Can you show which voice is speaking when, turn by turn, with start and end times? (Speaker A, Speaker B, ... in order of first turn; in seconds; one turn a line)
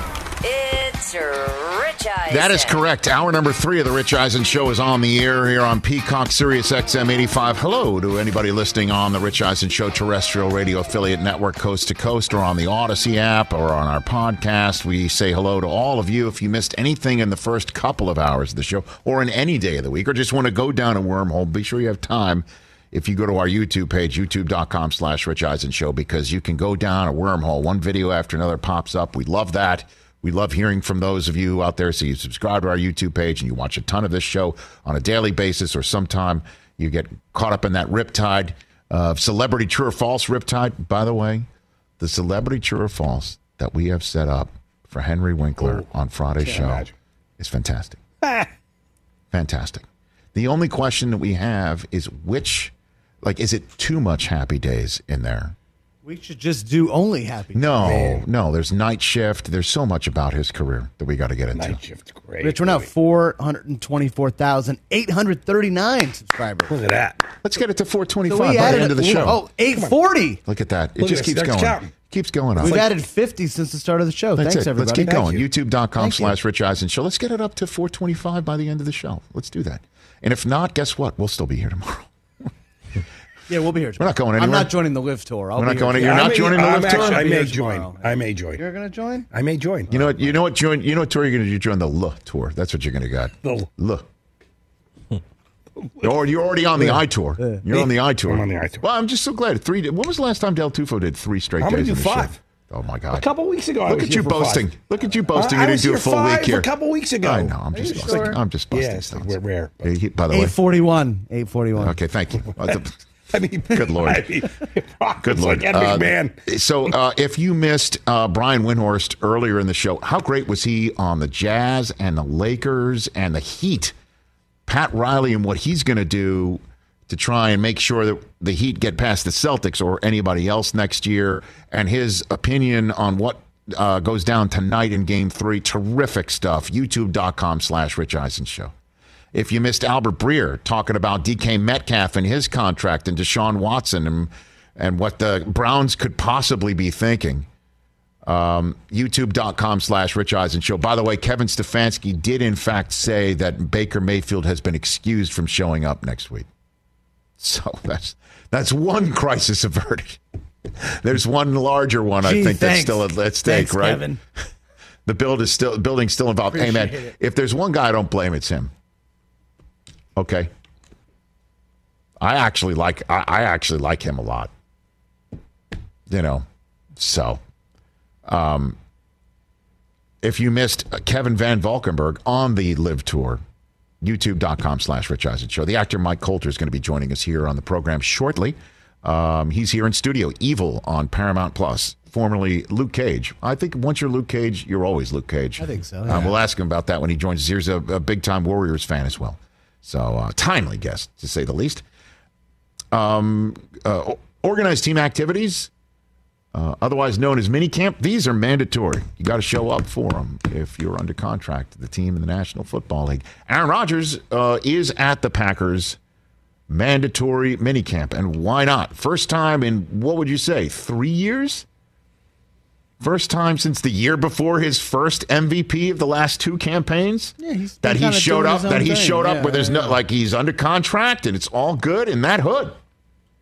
Speaker A: 0.4-2.8
Speaker B: 2.3-41.5
Speaker B: 42.0-48.0
Speaker C: 45.6-45.9
Speaker C: 46.4-46.9
Speaker C: 48.2-48.5
Speaker B: 49.3-55.6
Speaker D: 56.0-58.0
Speaker B: 57.5-61.8
Speaker C: 57.8-58.2
Speaker C: 61.5-62.9
Speaker D: 62.4-66.7
Speaker C: 66.7-67.2
Speaker B: 67.4-69.4
Speaker D: 68.3-70.4
Speaker C: 68.6-70.0
Speaker B: 70.5-72.9
Speaker C: 71.0-71.9
Speaker D: 72.6-75.3
Speaker C: 72.6-72.9
Speaker B: 74.4-82.5
Speaker C: 75.0-75.5
Speaker D: 76.0-76.4
Speaker D: 83.5-89.3
Speaker B: 84.0-84.8
Speaker B: 85.6-87.3
Speaker C: 86.0-88.6
Speaker C: 89.3-89.9
Speaker D: 89.9-90.4
Speaker B: 89.9-94.1
Speaker C: 93.4-93.7
Speaker B: 96.0-103.3
Speaker C: 97.7-98.8
Speaker C: 101.6-102.4
Speaker C: 103.1-104.7
Speaker B: 103.9-106.7
Speaker C: 105.3-109.9
Speaker B: 107.2-110.6
Speaker D: 107.7-108.4
Speaker D: 110.3-112.0
Speaker B: 111.8-113.0
Speaker C: 113.3-116.3
Speaker B: 113.7-114.4
Speaker B: 115.2-124.0
Speaker B: 124.7-138.7
Speaker B: 139.3-147.5
Speaker B: 148.2-156.5
Speaker B: 157.4-160.2
Speaker B: 160.8-164.1
Speaker D: 162.2-164.2
Speaker B: 165.1-168.7
Speaker D: 166.5-167.1
Speaker B: 170.2-170.5
Speaker B: 172.2-174.5
Speaker B: 176.1-176.4
Speaker B: 177.0-177.4
Speaker B: 178.3-178.8
Speaker B: 180.2-183.4
Speaker B: 184.0-201.8
Speaker D: 195.6-196.4
Speaker B: 202.9-205.7
Speaker B: 206.5-216.0
Speaker B: 216.7-221.7
Speaker B: 223.0-232.8
Speaker D: 227.4-230.0